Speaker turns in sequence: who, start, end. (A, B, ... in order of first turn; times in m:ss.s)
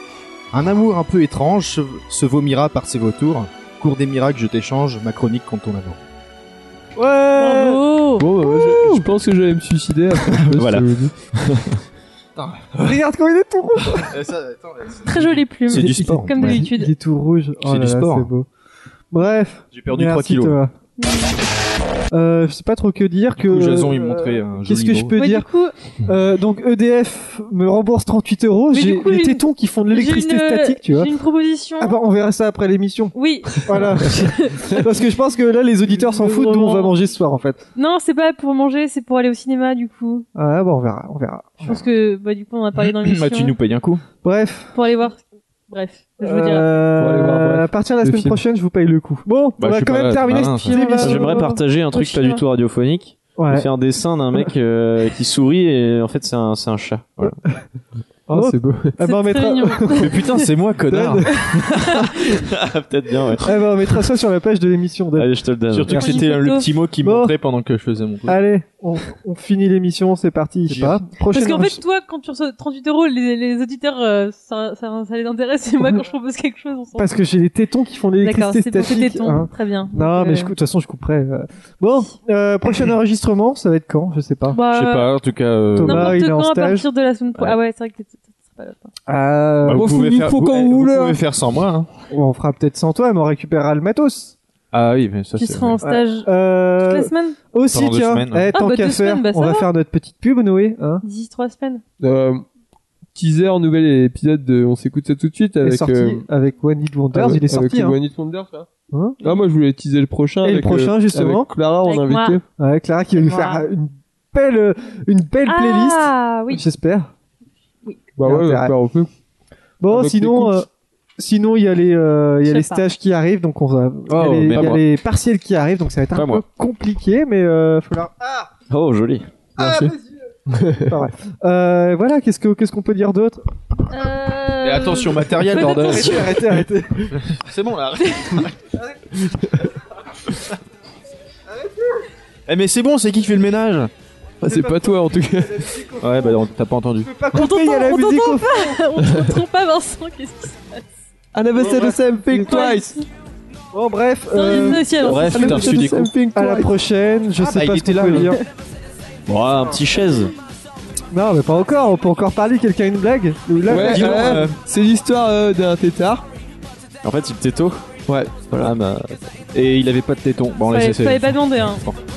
0:00.5-0:06.0 A
0:07.0-0:07.8 B
0:07.4-0:08.3 C
0:08.2-0:11.1 D
0:08.4-0:09.1 B
0:10.4-0:10.9 A
0:12.4-0:13.0 A
0:12.8-0:14.1 B
0:14.0-0:16.7 A
0:15.0-0:16.9 C
0:15.7-0:18.5 B
0:17.6-0:18.3 A
0:19.1-0:20.7 B
0:19.7-0:20.6 A
0:21.0-0:21.4 C
0:22.1-0:25.5 B
0:23.4-0:25.2 A
0:25.2-0:25.7 C
0:26.0-0:31.1 B
0:28.7-0:32.0 C
0:31.8-0:37.6 B
0:33.2-0:34.9 C
0:36.0-0:37.0 C
0:37.8-0:40.3 C
0:40.4-0:41.9 B
0:41.6-0:43.6 C
0:42.9-0:44.0 A
0:44.2-0:44.8 B
0:44.7-0:46.7 C
0:46.2-0:51.5 B
0:47.0-0:48.4 D
0:49.6-0:51.0 A
0:50.3-0:52.4 C
0:50.9-0:57.4 E
0:53.4-0:53.7 B
0:58.3-0:59.0 D
0:58.3-1:00.2 B
0:59.0-1:00.4 C
1:00.0-1:01.5 A
1:00.9-1:01.6 B
1:02.5-1:03.6 E
1:03.4-1:05.3 B
1:05.2-1:06.0 E
1:05.7-1:08.4 A
1:05.9-1:06.7 C
1:07.0-1:07.4 B
1:08.2-1:11.8 B
1:10.7-1:11.0 A
1:11.3-1:17.1 C
1:17.0-1:24.6 B
1:18.2-1:20.5 C
1:24.5-1:25.1 C
1:24.7-1:26.2 A
1:25.8-1:26.8 B
1:25.8-1:28.9 C
1:29.1-1:30.0 B
1:29.6-1:31.9 A
1:29.7-1:31.2 D
1:32.1-1:34.4 B
1:34.7-1:35.8 A
1:35.4-1:37.4 C
1:35.8-1:41.0 B
1:37.7-1:38.6 A
1:38.5-1:39.7 C
1:41.0-1:41.8 C
1:42.0-1:42.4 D
1:43.2-1:46.2 D
1:45.6-1:48.0 B
1:47.1-1:48.7 D
1:48.9-1:49.2 B
1:49.2-1:52.4 D
1:50.4-1:51.5 B
1:51.8-1:52.4 C
1:52.6-1:57.1 B
1:53.2-1:53.7 C
1:55.5-1:56.6 C
1:58.2-1:59.1 D
1:58.2-1:58.8 B
1:59.8-2:08.5 B
1:59.9-2:00.6 D
2:02.4-2:02.8 C
2:04.1-2:04.8 A
2:06.1-2:06.4 E
2:08.7-2:09.3 E
2:09.6-2:10.2 B
2:09.6-2:09.9 D
2:10.5-2:11.0 D
2:10.8-2:13.4 B
2:13.9-2:16.4 C
2:14.6-2:16.4 A
2:15.6-2:17.2 B
2:17.1-2:18.6 A
2:21.5-2:22.0 B
2:22.5-2:23.9 A
2:24.4-2:25.8 D
2:24.4-2:26.4 B
2:26.0-2:27.1 A
2:27.0-2:28.8 B
2:27.3-2:30.8 C
2:31.3-2:33.0 D
2:31.6-2:32.8 B
2:32.4-2:33.0 C
2:33.7-2:35.0 B
2:34.3-2:35.8 C
2:34.9-2:36.1 A
2:35.1-2:36.7 D
2:36.3-2:38.4 B
2:37.4-2:38.4 A
2:39.3-2:40.3 E
2:41.1-2:44.5 B
2:43.7-2:46.2 D
2:43.7-2:44.6 A
2:47.0-2:47.8 E
2:48.1-2:48.7 D
2:48.6-2:49.3 E
2:49.5-2:52.0 A
2:50.7-2:51.8 C